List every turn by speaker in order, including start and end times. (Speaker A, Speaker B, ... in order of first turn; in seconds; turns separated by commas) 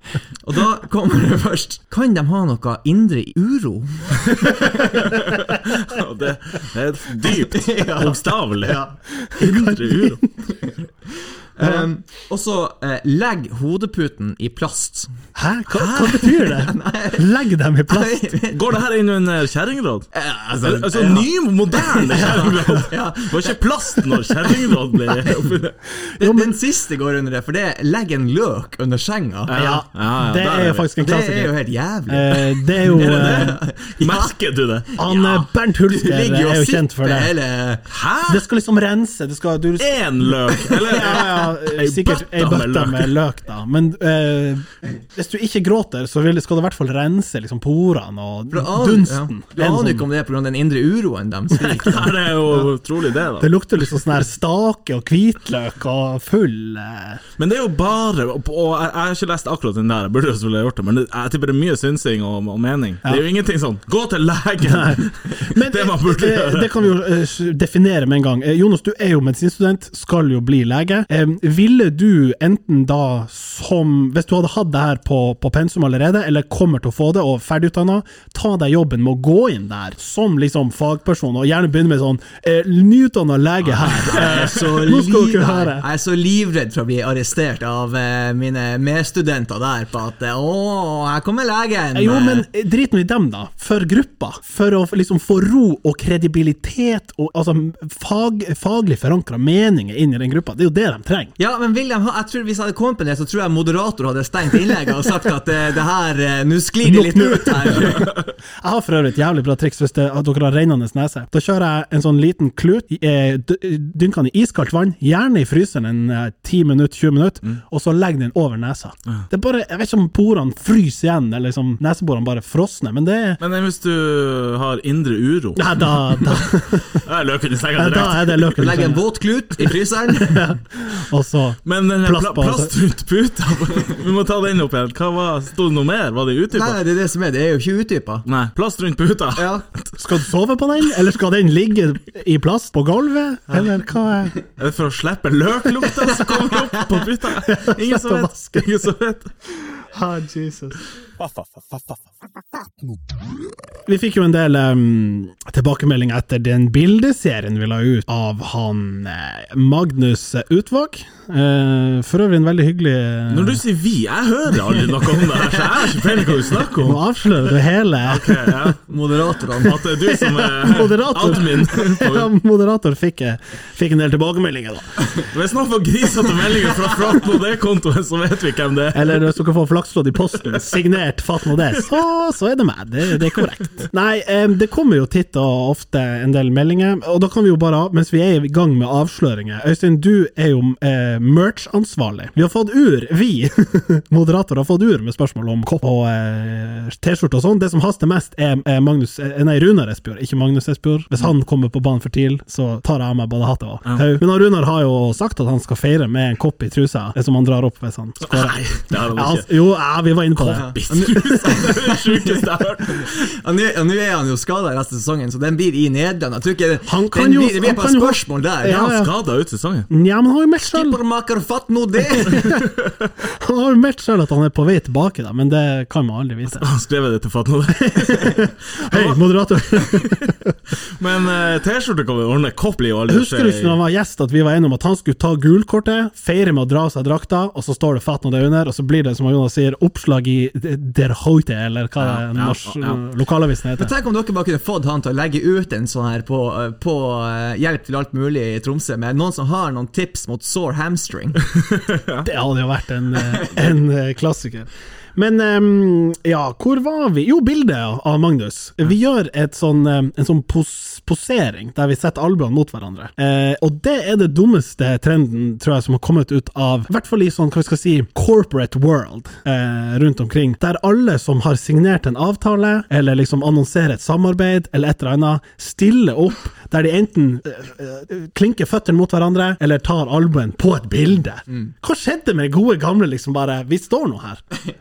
Speaker A: 0.4-5.1, Speaker B: 5.0-8.8, Speaker A: 7.3-8.9, Speaker C: 9.3-10.2, Speaker B: 9.4-10.2, Speaker A: 10.5-10.8, Speaker A: 11.6-15.1, Speaker C: 11.6-11.9, Speaker C: 15.4-18.2, Speaker B: 15.8-16.3, Speaker A: 16.4-17.3, Speaker A: 17.9-18.6, Speaker B: 18.5-20.1, Speaker A: 20.1-24.6, Speaker B: 20.6-25.7, Speaker C: 22.1-22.9, Speaker A: 25.1-29.6, Speaker C: 26.2-26.5, Speaker B: 29.5-30.9, Speaker C: 29.6-31.5, Speaker A: 31.0-34.3, Speaker C: 32.1-33.6, Speaker B: 32.9-34.9, Speaker A: 34.9-37.9, Speaker C: 35.0-37.3, Speaker B: 37.9-38.4, Speaker C: 38.3-50.1, Speaker B: 39.8-43.1, Speaker A: 48.5-52.1, Speaker B: 51.7-53.5, Speaker C: 53.4-57.2, Speaker B: 57.4-66.8, Speaker C: 64.6-85.9, Speaker A: 84.0-92.5, Speaker C: 92.0-101.3, Speaker A: 101.4-108.2, Speaker C: 106.8-123.4, Speaker B: 123.4-125.8, Speaker C: 125.6-127.0, Speaker B: 127.0-128.6, Speaker C: 127.8-129.0, Speaker A: 128.6-130.5, Speaker C: 130.2-132.7, Speaker B: 131.7-136.8, Speaker A: 136.5-138.2, Speaker B: 138.3-140.1, Speaker A: 139.4-139.7, Speaker C: 140.0-144.4, Speaker B: 144.6-149.3, Speaker A: 146.5-146.8, Speaker C: 147.5-148.7, Speaker C: 149.8-150.8, Speaker C: 153.9-163.6, Speaker B: 163.3-167.0, Speaker C: 166.8-168.8, Speaker B: 168.0-168.9, Speaker A: 168.9-169.9, Speaker B: 169.6-172.3, Speaker C: 169.9-175.1, Speaker B: 175.2-179.2, Speaker C: 178.9-211.2, Speaker B: 208.2-209.5, Speaker B: 210.4-213.3, Speaker A: 210.4-218.9, Speaker C: 216.9-219.1, Speaker B: 218.7-219.9, Speaker C: 219.9-221.0, Speaker A: 220.6-222.6, Speaker C: 222.2-226.7, Speaker B: 226.5-229.2, Speaker C: 227.8-230.5, Speaker B: 229.7-230.3, Speaker B: 231.0-233.8, Speaker C: 233.1-243.9, Speaker B: 242.0-243.0, Speaker A: 243.8-251.4, Speaker B: 251.7-252.3, Speaker C: 252.2-284.4